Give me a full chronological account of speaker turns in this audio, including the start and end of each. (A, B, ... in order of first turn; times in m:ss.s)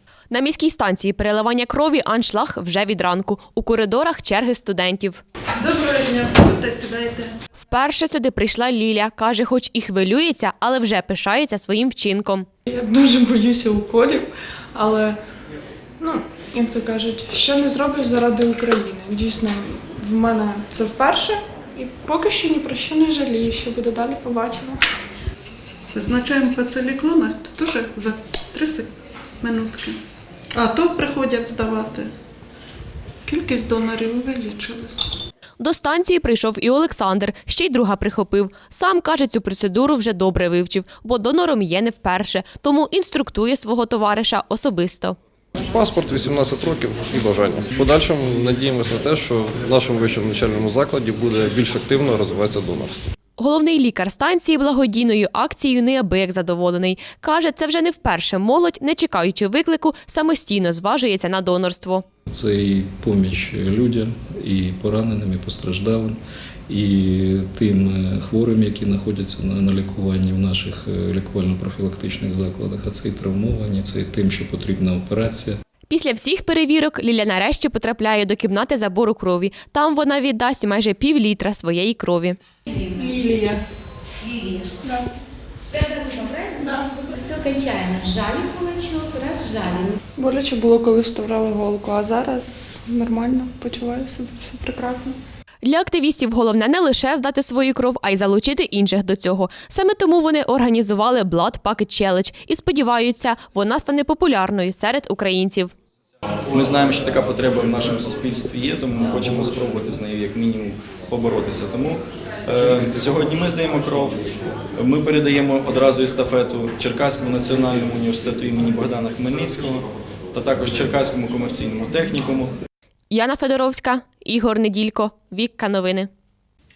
0:00.3-0:05.2 A
0:05.6-0:07.3 B
0:07.6-0:12.5 A
0:12.7-0:15.2 C
0:16.0-0:24.8 C
0:25.9-0:28.9 B
0:29.4-0:30.0 B
0:30.5-0:32.1 B
0:33.2-0:35.1 B
0:35.6-0:45.2 A
0:45.6-0:53.1 D
0:53.4-1:02.0 A
1:02.3-1:15.6 E
1:15.9-1:22.4 A
1:22.9-1:23.6 C
1:25.7-1:30.0 F
1:30.2-1:35.2 C
1:35.6-1:45.7 A
1:46.5-2:02.5 G
2:03.1-2:06.1 A